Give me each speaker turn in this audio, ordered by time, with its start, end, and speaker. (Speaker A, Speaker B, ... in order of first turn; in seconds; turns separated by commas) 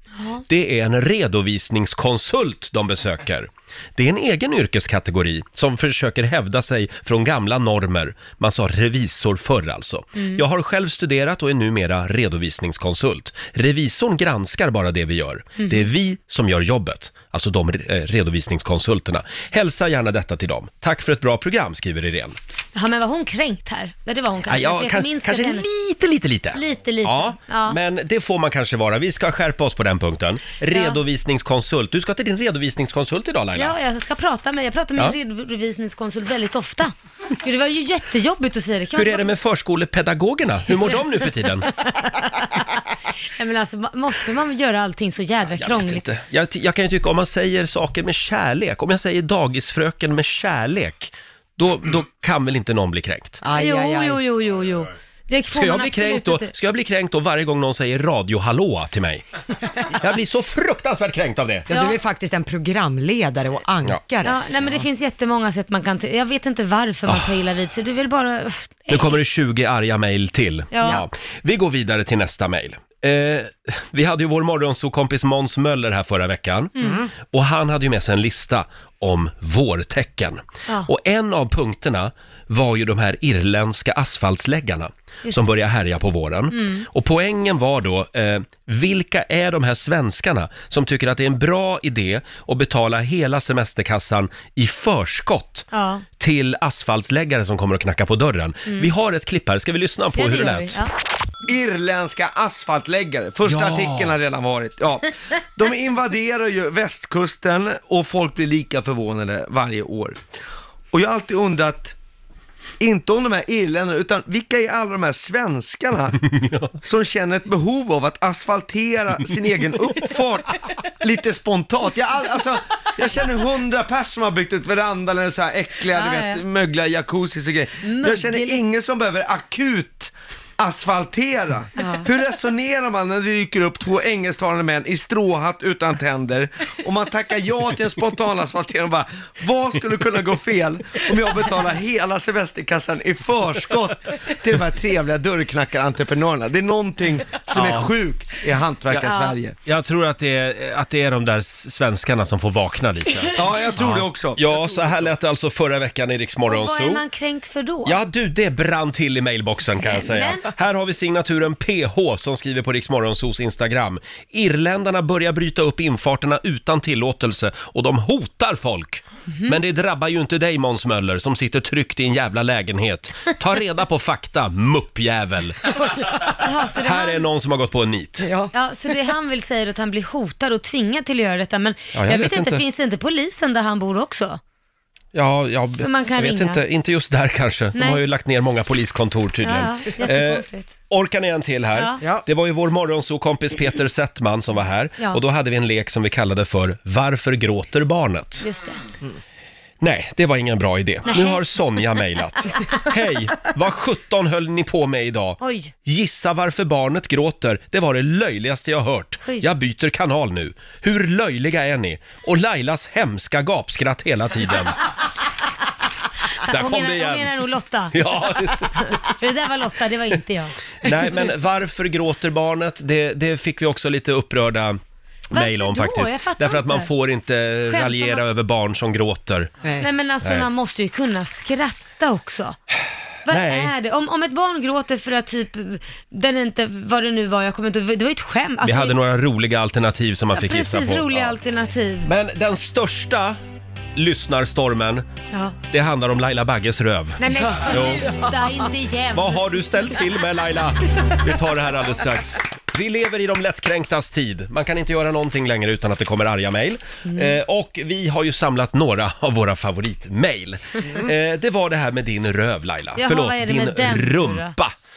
Speaker A: 0.2-0.4, Speaker B: 0.5-22.4, Speaker A: 10.2-10.4, Speaker A: 15.6-15.8, Speaker A: 22.7-25.6, Speaker B: 24.5-33.8, Speaker A: 26.5-27.8, Speaker A: 30.7-31.0, Speaker A: 33.5-39.3, Speaker B: 38.9-41.7, Speaker A: 41.8-42.8, Speaker A: 43.4-46.1, Speaker B: 45.6-53.4, Speaker C: 53.4-54.2, Speaker A: 53.5-56.5, Speaker B: 55.5-59.2, Speaker B: 59.8-61.7, Speaker C: 61.7-64.4, Speaker A: 61.7-62.0, Speaker A: 64.2-69.2, Speaker B: 68.9-95.7, Speaker A: 70.7-71.0, Speaker A: 76.8-77.0, Speaker A: 86.5-86.8, Speaker A: 95.7-96.0, Speaker B: 96.2-100.8, Speaker A: 100.1-100.9, Speaker D: 101.5-110.2, Speaker B: 103.4-104.1, Speaker D: 110.9-111.9, Speaker D: 112.8-116.2, Speaker B: 116.2-116.7, Speaker D: 116.8-149.6, Speaker A: 125.9-126.4, Speaker A: 127.8-128.6, Speaker B: 147.5-147.9, Speaker A: 149.0-149.3, Speaker B: 149.6-157.0, Speaker D: 153.3-155.0, Speaker A: 156.5-158.0, Speaker B: 157.8-175.7, Speaker A: 159.8-160.5, Speaker A: 176.3-177.2, Speaker B: 176.8-178.3, Speaker C: 178.2-178.5, Speaker A: 178.5-184.4, Speaker B: 181.9-182.6, Speaker B: 185.1-198.4, Speaker A: 185.7-186.6, Speaker A: 187.7-188.0, Speaker A: 189.4-190.7, Speaker A: 191.7-192.0, Speaker A: 198.4-198.8, Speaker B: 199.8-214.8, Speaker A: 201.1-201.4, Speaker A: 205.4-205.7, Speaker A: 216.4-220.5, Speaker B: 216.4-217.4, Speaker B: 217.9-219.1, Speaker B: 220.8-224.8, Speaker B: 225.3-229.5, Speaker A: 225.3-226.9, Speaker A: 227.7-228.2, Speaker C: 229.6-229.9, Speaker A: 229.8-232.6, Speaker B: 230.2-230.5, Speaker B: 233.3-233.7, Speaker A: 233.3-239.0, Speaker B: 238.6-241.3, Speaker A: 240.3-242.1, Speaker B: 242.0-243.4, Speaker B: 243.9-245.0, Speaker B: 245.7-248.2, Speaker A: 247.2-250.0, Speaker B: 249.1-264.7, Speaker A: 257.1-257.4, Speaker A: 262.9-264.5